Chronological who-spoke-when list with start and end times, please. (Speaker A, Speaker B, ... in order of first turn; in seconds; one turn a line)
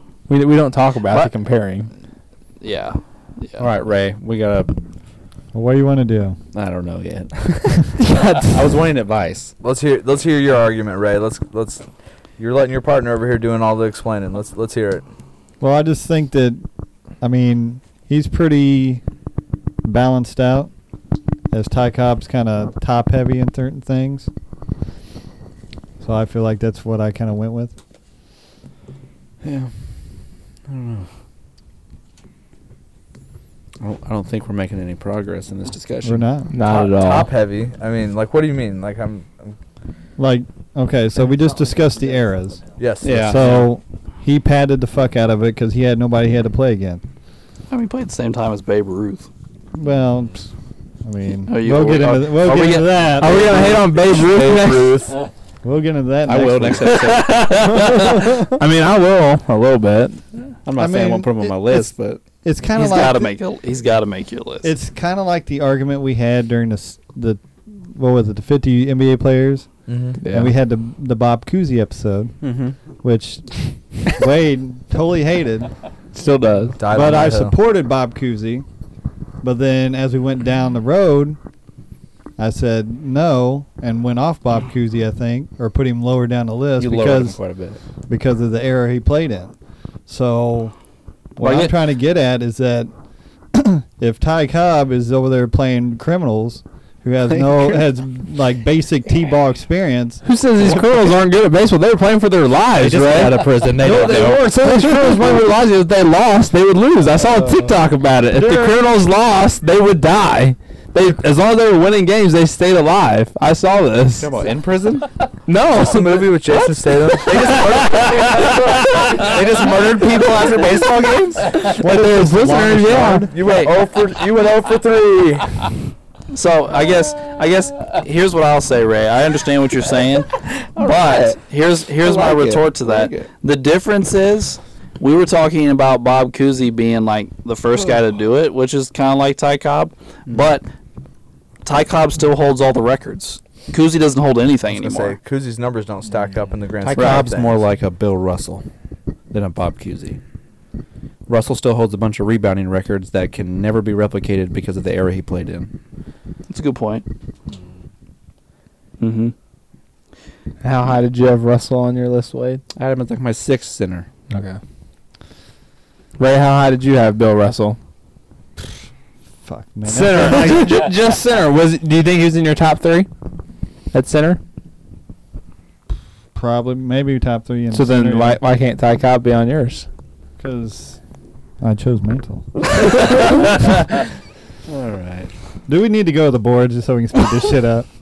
Speaker A: 0.3-1.9
Speaker B: 2.6-3.7
Speaker C: 3.6-4.8
Speaker D: 5.5-6.4
Speaker C: 6.5-9.5
Speaker A: 8.1-8.4
Speaker E: 9.6-11.8
Speaker E: 12.4-15.1
Speaker D: 15.6-16.6
Speaker D: 17.2-19.0
Speaker D: 19.8-20.7
Speaker D: 21.5-24.3
Speaker D: 26.0-27.7
Speaker C: 29.4-29.8
Speaker C: 30.7-31.1
Speaker C: 33.8-36.3
Speaker D: 36.0-36.5
Speaker A: 36.5-37.3
Speaker E: 36.6-39.5
Speaker D: 40.2-47.0
Speaker E: 42.8-43.7
Speaker C: 43.0-43.7
Speaker B: 47.7-49.3
Speaker D: 49.8-50.5
Speaker D: 51.0-53.5
Speaker B: 51.5-53.0
Speaker A: 53.2-55.1
Speaker E: 53.2-55.2
Speaker D: 55.6-57.1
Speaker C: 56.3-58.6
Speaker B: 57.1-58.2
Speaker A: 57.6-60.2
Speaker C: 60.7-62.2
Speaker D: 60.8-63.3
Speaker B: 62.8-64.7
Speaker D: 64.6-69.7
Speaker E: 69.9-70.2
Speaker A: 70.2-70.5
Speaker D: 70.3-72.4
Speaker C: 72.4-72.8
Speaker D: 73.0-75.7
Speaker A: 76.1-76.8
Speaker E: 76.8-77.6
Speaker D: 76.9-78.7
Speaker D: 79.4-81.4
Speaker D: 82.4-87.4
Speaker C: 86.8-87.8
Speaker D: 88.1-89.5
Speaker D: 90.1-90.8
Speaker D: 91.4-92.9
Speaker B: 91.4-91.7
Speaker D: 93.5-100.2
Speaker C: 97.3-97.8
Speaker A: 100.2-114.3
Speaker C: 100.6-100.9
Speaker C: 102.8-105.4
Speaker C: 108.3-108.8
Speaker C: 114.2-115.1
Speaker A: 115.5-120.4
Speaker E: 115.7-118.6
Speaker C: 118.9-123.3
Speaker E: 119.2-120.0
Speaker A: 121.5-123.3
Speaker E: 123.0-125.6
Speaker B: 126.3-140.7
Speaker C: 130.5-133.3
Speaker B: 141.7-145.2
Speaker E: 144.7-147.7
Speaker C: 146.8-148.6
Speaker B: 147.0-147.3
Speaker C: 149.3-150.2
Speaker C: 151.3-155.7
Speaker B: 156.5-157.1
Speaker B: 159.0-159.3
Speaker A: 160.6-162.6
Speaker C: 162.8-164.1
Speaker A: 164.3-164.6
Speaker A: 166.2-167.8
Speaker D: 169.4-170.8
Speaker A: 169.9-173.1
Speaker A: 173.9-174.4
Speaker D: 176.3-178.4
Speaker A: 177.7-179.9
Speaker D: 180.4-181.0
Speaker D: 181.6-183.5
Speaker C: 184.7-185.3
Speaker D: 185.7-187.9